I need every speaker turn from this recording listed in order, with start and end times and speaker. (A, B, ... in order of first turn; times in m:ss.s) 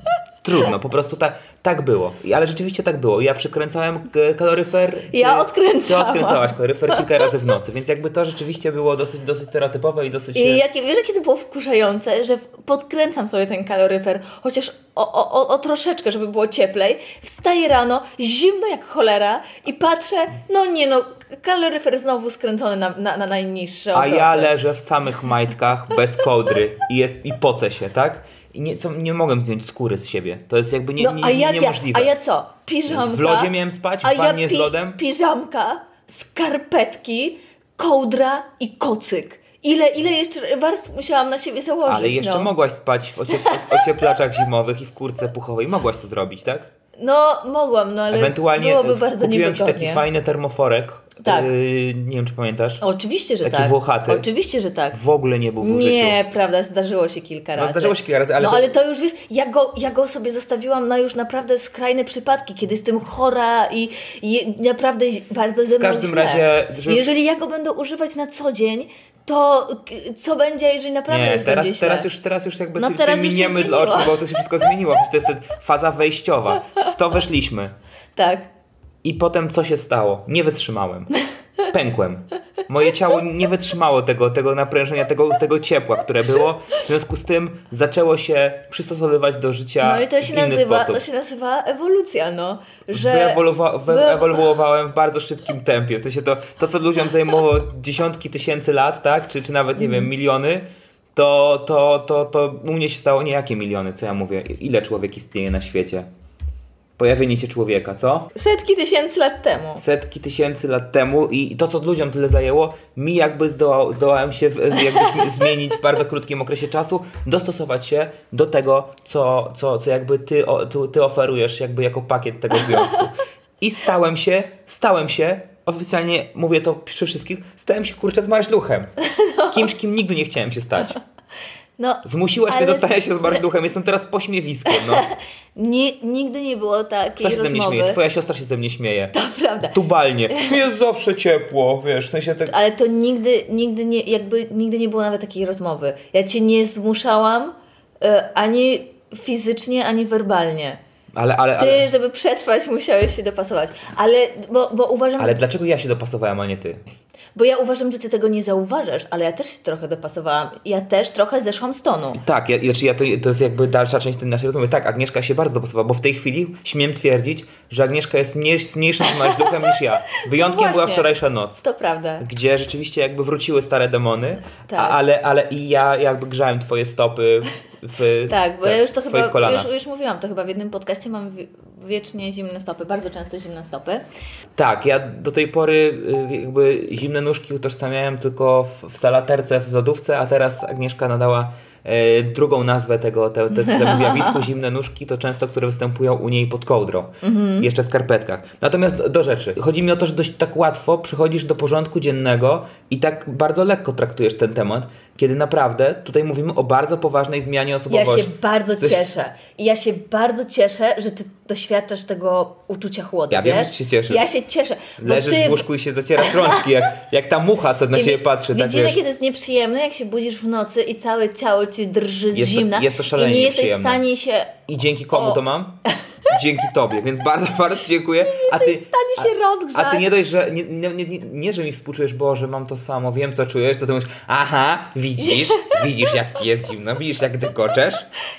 0:00.4-0:10.6 A
0:05.1-0:07.2 B
0:10.3-0:24.5 B
0:23.9-0:32.1 A
0:31.0-0:42.5 B
0:32.9-0:35.0 A
0:41.8-0:46.7 A
0:43.3-0:43.9 B
0:47.0-0:50.0 B
0:48.1-0:52.8 A
0:51.2-0:51.5 B
0:52.8-0:55.0 B
0:53.4-0:54.2 A
0:54.9-0:56.2 A
0:55.6-1:12.1 B
0:57.6-0:58.7 A
1:05.6-1:07.0 A
1:11.1-1:17.7 A
1:12.8-1:14.2 B
1:18.2-1:18.5 B
1:19.0-1:21.1 A
1:21.7-1:31.0 A
1:29.8-1:34.4 B
1:32.9-1:46.1 A
1:39.8-1:40.1 B
1:47.0-1:48.3 A
1:48.3-1:49.8 B
1:49.8-2:08.9 A
2:09.1-2:09.7 B
2:09.5-2:11.0 A
2:11.8-2:13.4 B
2:12.0-2:15.0 A
2:14.7-2:18.0 B
2:17.2-2:19.1 A
2:19.1-2:19.8 B
2:19.7-2:22.5 A
2:20.3-2:20.5 B
2:22.5-2:30.8 B
2:31.1-2:31.9 A
2:31.6-2:35.4 B
2:35.2-2:36.8 A
2:37.3-2:42.2 B
2:42.1-2:51.6 A
2:49.2-2:52.2 B
2:52.2-2:59.7 A
2:54.6-2:55.0 B
2:58.3-3:04.0 B
3:04.6-3:29.0 A
3:13.5-3:14.4 B
3:17.2-3:17.7 B
3:27.9-3:36.7 B
3:33.3-3:34.2 A
3:35.0-3:39.0 A
3:37.9-3:44.6 B
3:42.3-3:44.0 A
3:44.7-3:58.1 A
3:45.1-3:45.4 B
3:48.2-3:50.1 B
3:55.2-3:56.1 B